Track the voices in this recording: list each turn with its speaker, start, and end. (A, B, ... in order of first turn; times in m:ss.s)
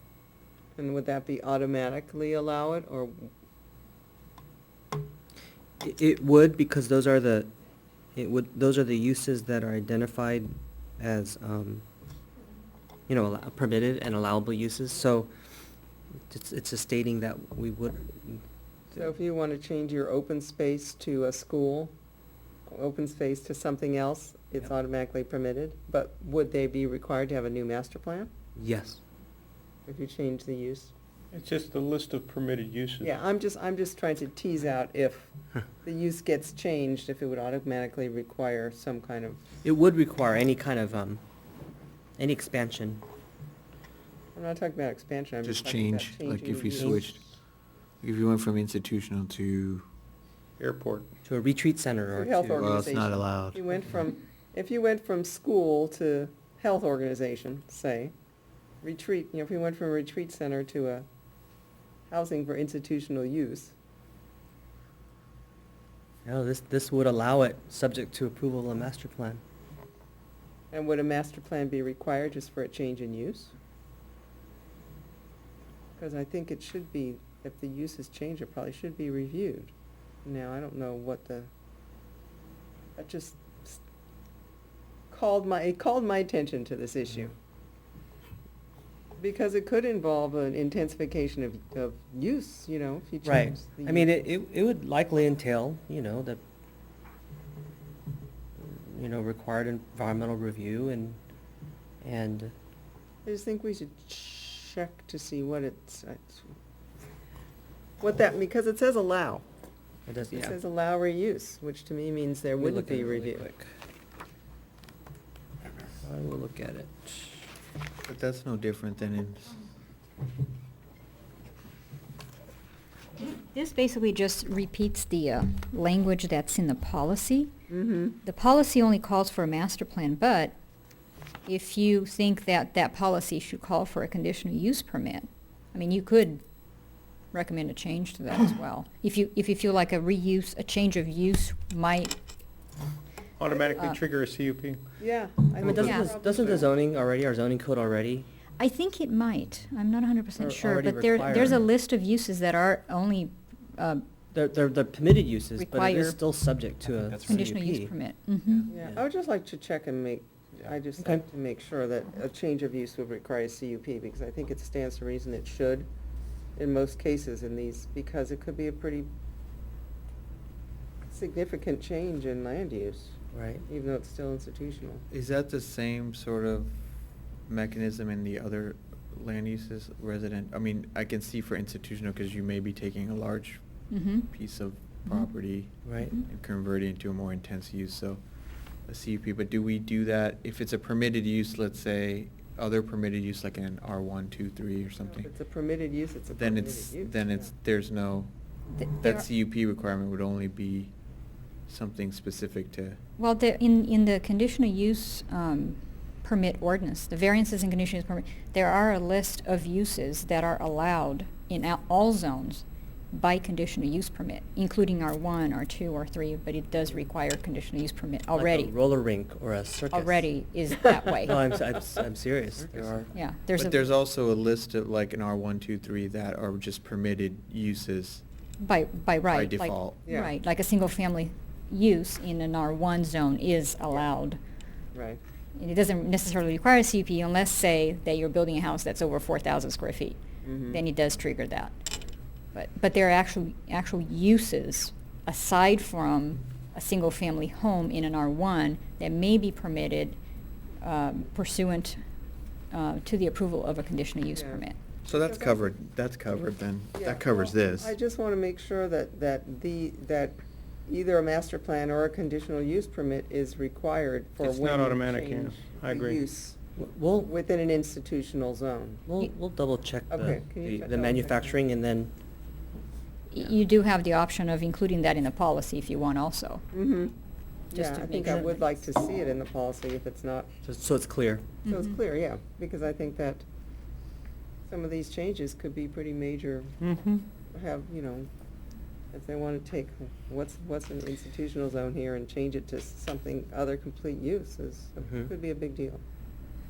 0:00.8-0:03.3 A
0:05.8-0:07.5 B
0:08.2-0:11.8 B
0:13.1-0:15.3 B
0:16.3-0:18.4 B
0:18.9-0:21.9 A
0:22.7-0:28.3 A
0:28.6-0:29.0 B
0:29.9-0:30.9 A
0:31.3-0:33.1 C
0:33.0-0:39.4 A
0:39.6-0:41.2 B
0:42.2-0:43.0 B
0:44.3-0:47.2 A
0:45.4-0:47.2 D
0:46.8-0:47.1 B
0:48.0-0:49.8 D
0:50.6-0:51.1 C
0:51.2-0:52.7 B
0:52.1-0:58.1 A
0:52.5-0:53.6 D
0:58.8-1:01.1 A
1:02.1-1:03.7 A
1:06.2-1:09.4 B
1:10.7-1:13.5 A
1:16.0-1:19.7 A
1:20.2-1:21.5 A
1:23.0-1:23.8 A
1:25.1-1:27.3 A
1:29.2-1:34.2 A
1:33.2-1:36.4 B
1:38.6-1:41.2 B
1:42.0-1:42.5 B
1:43.2-1:46.5 A
1:48.0-1:49.4 A
1:50.1-1:50.6 B
1:50.3-1:53.5 A
1:52.6-1:53.7 B
1:56.0-1:57.5 B
1:58.0-1:59.6 D
2:03.2-2:07.5 E
2:07.7-2:08.2 A
2:08.2-2:10.5 E
2:11.4-2:16.4 E
2:17.3-2:22.2 E
2:23.4-2:24.8 C
2:23.7-2:24.0 E
2:25.0-2:26.7 A
2:25.6-2:28.3 B
2:25.6-2:26.1 E
2:28.6-2:34.0 E
2:30.4-2:31.6 B
2:34.3-2:37.9 B
2:35.6-2:36.2 E
2:36.8-2:37.5 D
2:37.2-2:38.7 E
2:38.4-2:38.7 D
2:38.7-2:45.9 A
2:46.6-2:49.1 A
2:51.1-2:55.0 A
2:53.3-2:53.6 B
2:55.1-2:56.8 D
2:57.4-3:08.2 D
3:03.9-3:04.3 E
3:05.8-3:06.1 B
3:06.0-3:06.2 E
3:08.8-3:15.3 D
3:15.0-3:17.5 A
3:16.3-3:18.3 D
3:18.7-3:19.2 E
3:18.9-3:20.9 D
3:21.7-3:23.0 D
3:23.2-3:38.7 E
3:38.3-3:40.3 B
3:39.9-3:41.5 E
3:41.2-3:43.1 B
3:43.1-3:43.8 E
3:43.5-3:48.2 D
3:48.6-3:54.4 E
3:49.3-3:50.0 D
3:50.0-3:50.3 A
3:54.9-3:55.2 A
3:55.6-4:01.7 E
4:00.4-4:00.8 A
4:02.5-4:10.2 E
4:10.8-4:12.0 E
4:12.7-4:14.8 E
4:14.3-4:15.6 A
4:15.0-4:17.9 D
4:17.0-4:26.6 A
4:24.4-4:26.2 C
4:26.8-4:27.3 B
4:27.2-4:29.0 A
4:29.0-4:32.1 B
4:30.1-4:31.6 A
4:33.3-4:36.6 E
4:36.7-4:37.1 A
4:37.7-4:38.7 E
4:37.7-4:40.5 A
4:38.2-4:38.5 B
4:40.6-4:41.5 B
4:41.6-4:43.4 A
4:41.7-4:42.0 E
4:44.7-4:46.8 A
4:46.8-4:47.2 C
4:47.5-4:48.3 A
4:49.1-4:56.0 A
4:55.0-4:55.3 B